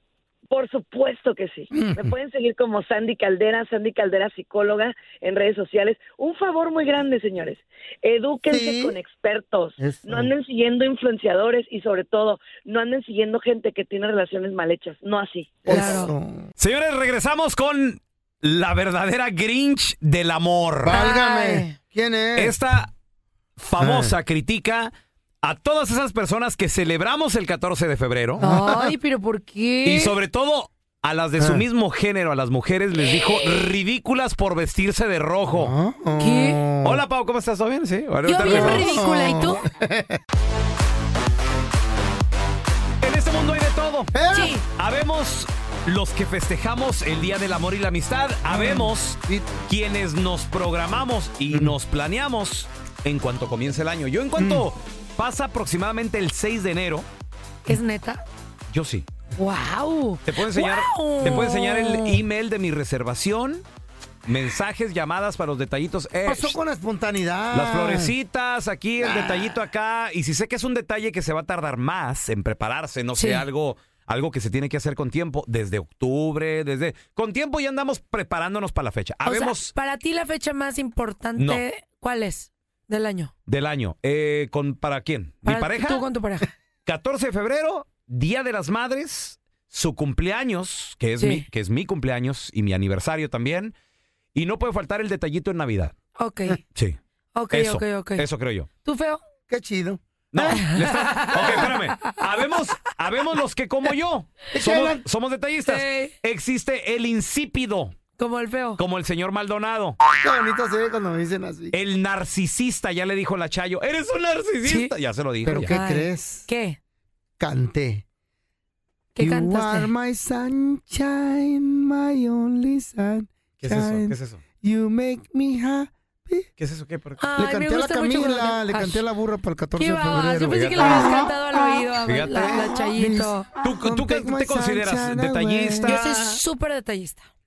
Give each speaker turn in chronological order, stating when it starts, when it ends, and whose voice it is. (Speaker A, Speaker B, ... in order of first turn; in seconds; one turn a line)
Speaker A: 0.5-16.0
Speaker B: 1.7-2.1
Speaker B: 8.5-9.0
Speaker B: 9.8-10.3
Speaker B: 15.6-16.5
Speaker C: 15.7-16.1
Speaker D: 16.6-21.0
Speaker B: 20.8-22.5
Speaker C: 20.9-21.8
Speaker D: 22.4-22.9
Speaker D: 23.6-24.9
Speaker B: 23.8-24.1
Speaker D: 25.4-28.4
Speaker B: 28.4-28.9
Speaker C: 28.4-30.1
Speaker D: 29.8-35.7
Speaker B: 31.4-31.6
Speaker B: 35.5-37.0
Speaker C: 36.2-36.6
Speaker D: 36.8-38.9
Speaker C: 38.2-39.6
Speaker B: 38.4-40.2
Speaker D: 43.0-44.1
Speaker B: 44.1-44.5
Speaker C: 44.3-44.6
Speaker D: 44.8-57.1
Speaker B: 48.5-49.5
Speaker B: 54.4-54.7
Speaker C: 57.6-58.2
Speaker D: 58.7-59.0
Speaker C: 59.4-62.1
Speaker D: 60.2-63.6
Speaker D: 64.2-66.5
Speaker B: 66.2-68.1
Speaker D: 67.5-79.7
Speaker B: 69.0-69.6
Speaker C: 73.2-73.4
Speaker C: 79.2-83.3
Speaker D: 81.4-81.6
Speaker D: 83.5-86.0
Speaker C: 85.4-86.5
Speaker D: 86.8-93.7
Speaker D: 94.3-95.9
Speaker C: 96.2-96.6
Speaker C: 97.3-98.2
Speaker D: 97.5-98.7
Speaker C: 98.8-99.2
Speaker B: 99.5-101.7
Speaker D: 100.3-107.9
Speaker C: 100.5-101.8
Speaker B: 104.5-105.0
Speaker C: 105.7-106.1
Speaker C: 108.2-108.8
Speaker D: 108.8-110.0
Speaker B: 110.2-111.7
Speaker D: 111.7-115.7
Speaker C: 114.6-114.9
Speaker B: 115.4-116.5
Speaker C: 115.6-116.8
Speaker B: 117.4-118.0
Speaker C: 119.2-119.9
Speaker B: 119.2-126.5
Speaker D: 123.6-124.4
Speaker D: 126.6-127.2
Speaker C: 127.2-129.0
Speaker B: 127.3-136.0
Speaker C: 129.8-133.5
Speaker D: 130.5-131.2
Speaker D: 132.1-132.6
Speaker D: 133.6-136.4
Speaker C: 135.8-137.2